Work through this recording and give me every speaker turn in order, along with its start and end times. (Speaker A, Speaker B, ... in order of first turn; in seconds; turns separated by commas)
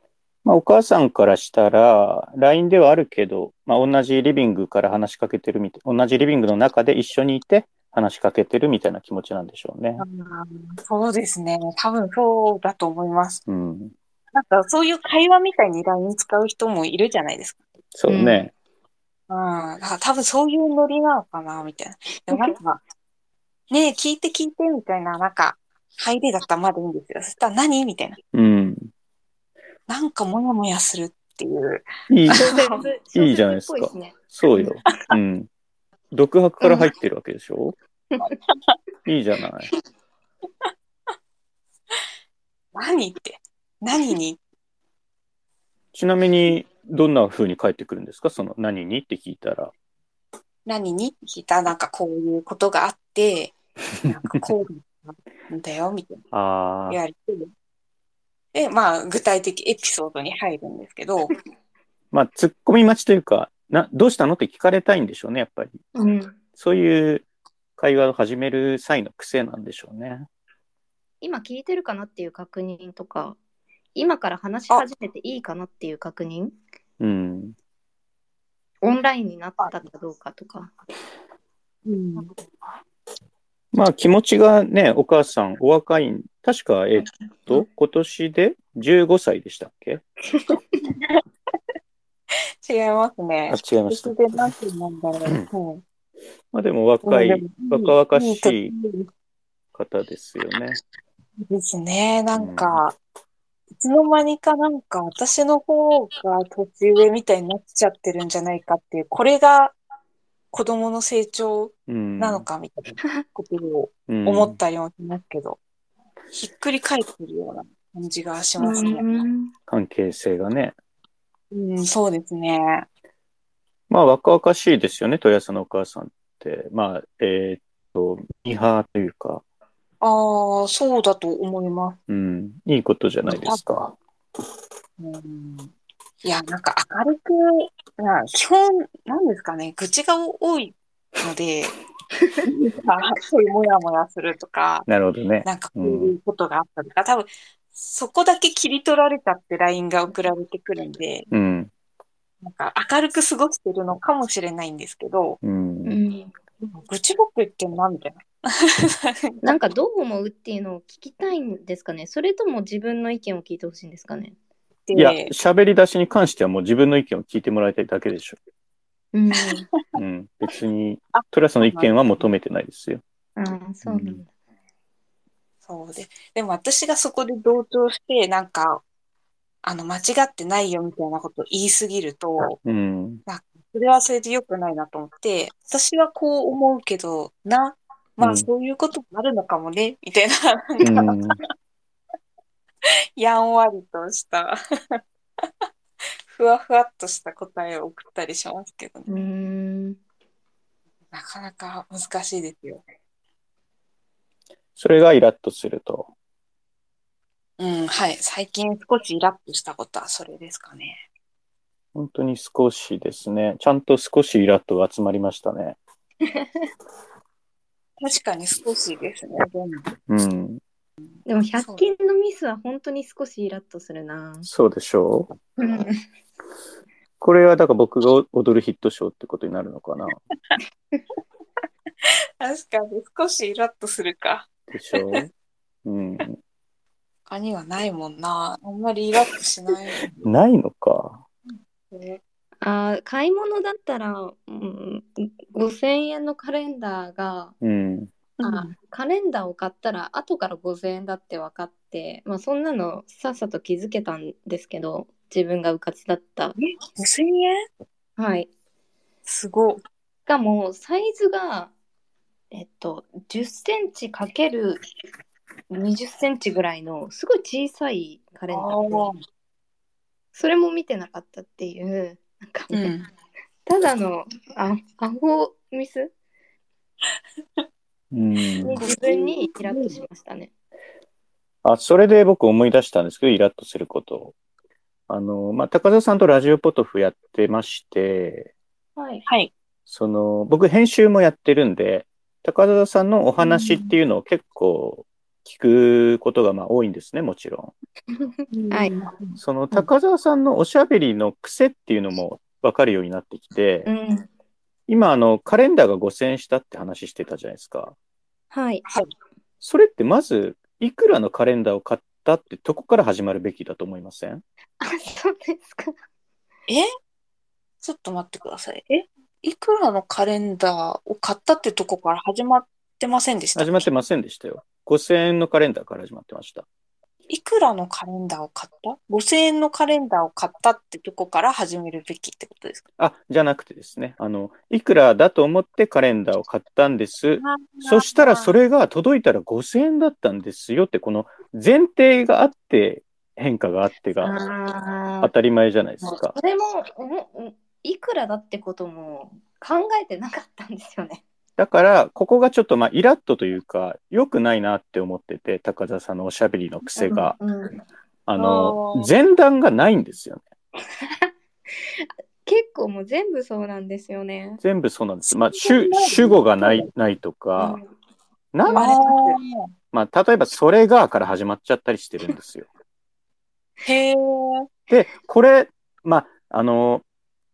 Speaker A: 0.5-10.0, Speaker B: 10.0-13.4, Speaker A: 13.5-13.9, Speaker B: 14.3-17.6, Speaker A: 17.9-18.5, Speaker C: 18.1-18.5, Speaker B: 19.3-22.8, Speaker B: 23.7-28.2, Speaker A: 28.3-28.9, Speaker B: 29.9-32.8, Speaker A: 32.1-32.5, Speaker C: 32.3-34.7, Speaker A: 33.1-35.5, Speaker A: 36.1-37.8, Speaker C: 36.6-36.9, Speaker A: 39.1-39.7, Speaker B: 42.8-44.4, Speaker A: 45.9-49.7, Speaker B: 50.7-56.2, Speaker A: 56.3-57.0, Speaker B: 56.9-57.5, Speaker B: 58.5-61.4, Speaker A: 62.1-65.8, Speaker C: 66.0-66.3, Speaker A: 66.6-67.2, Speaker A: 67.8-70.3, Speaker C: 71.2-73.4, Speaker C: 74.0-76.6, Speaker A: 77.0-77.5, Speaker C: 78.8-80.7, Speaker B: 81.9-82.3, Speaker A: 83.7-90.0, Speaker B: 92.6-95.8, Speaker A: 93.5-94.5, Speaker A: 96.5-98.7, Speaker B: 97.0-99.1, Speaker A: 99.7-100.8, Speaker B: 101.4-103.0, Speaker A: 102.3-102.8, Speaker B: 103.8-109.8, Speaker B: 110.5-115.6, Speaker A: 111.9-112.5, Speaker A: 114.1-114.6, Speaker B: 116.3-119.1, Speaker C: 118.6-119.5, Speaker A: 119.7-120.8, Speaker B: 121.5-122.8, Speaker A: 123.9-129.4, Speaker B: 130.0-132.0, Speaker A: 132.1-133.9, Speaker B: 133.2-133.6, Speaker B: 135.0-135.7, Speaker B: 136.2-141.8, Speaker B: 142.4-144.9, Speaker A: 144.9-146.1, Speaker B: 145.4-151.3, Speaker A: 151.3-151.7, Speaker B: 152.4-155.4, Speaker A: 155.4-156.0, Speaker C: 155.9-156.3, Speaker B: 156.6-159.5, Speaker C: 159.4-164.3, Speaker B: 164.9-165.3, Speaker A: 164.9-168.4, Speaker C: 169.1-169.7, Speaker A: 169.9-173.0, Speaker B: 171.1-172.3, Speaker C: 173.4-174.3, Speaker A: 173.8-174.2, Speaker B: 175.7-178.8, Speaker B: 179.6-182.6, Speaker A: 182.6-183.2, Speaker B: 183.3-191.2, Speaker A: 188.2-188.5, Speaker A: 190.8-191.4, Speaker B: 193.2-195.5, Speaker B: 196.3-199.1, Speaker C: 199.1-200.0, Speaker B: 201.1-202.8, Speaker A: 204.8-206.1, Speaker B: 207.6-211.0, Speaker A: 211.9-215.8, Speaker C: 216.3-216.7, Speaker B: 218.0-219.9, Speaker A: 220.1-220.6, Speaker C: 221.3-224.5, Speaker B: 221.6-221.8, Speaker A: 224.4-225.3, Speaker C: 225.6-225.9, Speaker A: 227.2-230.2, Speaker B: 232.4-235.2, Speaker A: 234.7-235.3, Speaker A: 235.8-236.4, Speaker B: 237.3-240.3, Speaker A: 240.2-241.2, Speaker B: 241.5-242.2, Speaker C: 242.6-247.5, Speaker A: 247.6-248.1, Speaker B: 248.4-248.7, Speaker C: 248.4-256.6, Speaker B: 256.6-257.6, Speaker C: 258.2-258.5, Speaker B: 259.3-259.8, Speaker C: 260.3-261.7, Speaker C: 262.5-264.8, Speaker C: 265.7-269.1, Speaker B: 268.5-269.2, Speaker C: 270.3-272.9, Speaker B: 272.7-273.1, Speaker C: 273.7-276.1, Speaker A: 278.1-278.8, Speaker B: 278.6-280.0, Speaker C: 278.7-280.5, Speaker A: 281.6-284.3, Speaker A: 285.1-288.5, Speaker C: 289.0-289.2, Speaker B: 289.3-289.5, Speaker A: 289.9-297.7, Speaker B: 293.4-293.9, Speaker C: 298.2-298.9, Speaker B: 298.5-299.4, Speaker A: 299.4-303.9, Speaker C: 303.9-304.3, Speaker A: 304.9-307.9, Speaker C: 308.5-308.9, Speaker A: 309.6-314.4, Speaker C: 314.8-316.0, Speaker B: 317.8-323.9, Speaker A: 323.6-326.6, Speaker B: 327.3-332.8, Speaker A: 333.0-344.3, Speaker B: 337.4-338.5, Speaker C: 344.2-345.3, Speaker A: 345.2-346.4, Speaker C: 346.0-351.2, Speaker A: 351.6-357.4, Speaker C: 357.0-357.8, Speaker A: 358.3-360.4, Speaker B: 358.4-359.1, Speaker C: 361.0-361.3, Speaker C: 361.9-364.6, Speaker A: 364.6-367.8, Speaker B: 365.3-366.9, Speaker A: 368.5-368.9, Speaker C: 368.6-369.4, Speaker B: 368.8-369.5, Speaker A: 369.9-372.7, Speaker B: 373.8-374.7, Speaker A: 374.9-377.0